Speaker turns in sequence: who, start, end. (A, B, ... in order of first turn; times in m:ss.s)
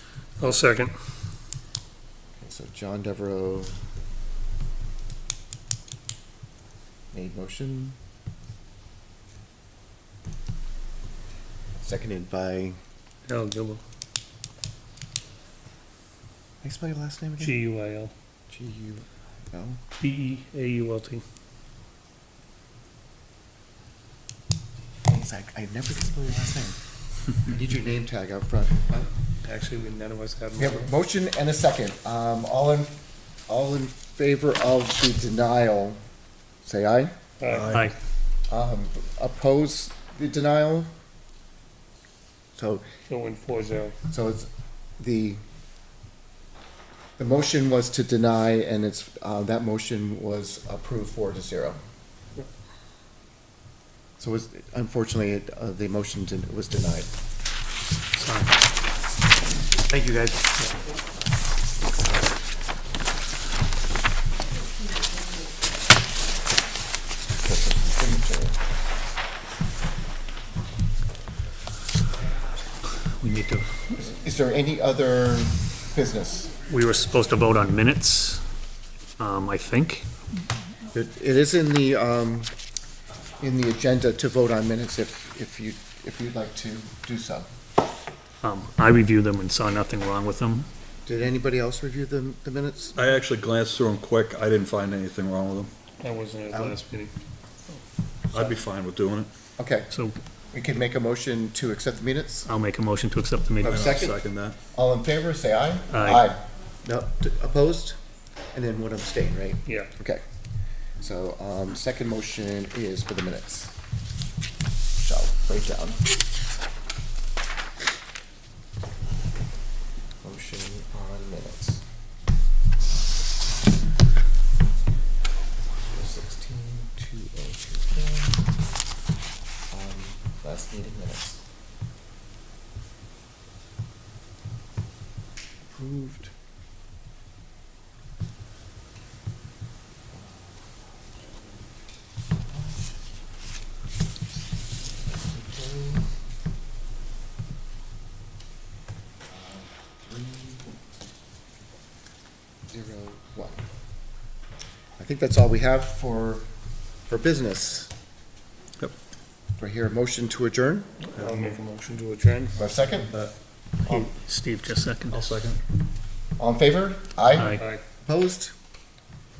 0:00.4-0:00.9 A
0:02.4-0:03.7 B
0:07.1-0:08.0 B
0:11.8-0:12.8 B
0:13.3-0:13.8 A
0:16.6-0:17.6 B
0:17.4-0:18.1 A
0:18.5-0:19.8 B
0:20.0-0:21.2 A
0:25.1-0:26.8 B
0:27.4-0:29.1 B
0:29.4-0:30.9 A
0:30.6-0:32.9 B
0:33.5-0:36.0 B
0:36.6-0:37.1 B
0:37.4-0:37.9 A
0:37.5-0:37.9 C
0:38.5-0:40.9 B
0:42.6-0:42.8 B
0:43.1-0:44.0 A
0:44.1-0:45.4 B
0:47.2-0:51.8 B
0:54.2-0:57.1 B
0:58.2-0:58.5 A
0:59.8-1:00.4 B
1:07.4-1:08.6 B
1:13.2-1:13.9 A
1:14.0-1:16.5 B
1:16.7-1:18.4 A
1:19.2-1:20.0 A
1:20.9-1:22.5 B
1:23.4-1:27.5 B
1:28.4-1:30.7 A
1:31.0-1:33.0 B
1:33.0-1:35.7 C
1:36.0-1:37.1 A
1:36.5-1:36.8 B
1:38.3-1:39.3 C
1:39.6-1:39.9 B
1:40.5-1:42.5 B
1:42.4-1:44.0 A
1:43.6-1:44.2 B
1:43.6-1:44.6 C
1:44.7-1:48.0 B
1:45.9-1:46.3 A
1:48.5-1:50.2 B
1:51.0-1:53.7 B
1:55.0-1:56.0 B
2:00.2-2:01.8 B
2:05.8-2:08.4 B
2:09.7-2:11.4 B
2:15.7-2:16.3 B
2:20.1-2:20.6 B
2:22.4-2:22.9 B
2:24.8-2:26.0 B
2:29.3-2:30.7 B
2:32.7-2:33.6 B
2:35.0-2:36.4 B
2:37.1-2:37.9 B
2:39.6-2:40.9 B
2:41.1-2:42.5 A
2:41.1-2:41.4 C
2:42.6-2:43.2 B
2:43.8-2:45.2 A
2:45.1-2:45.6 C
2:46.4-2:48.5 B
2:47.3-2:47.8 A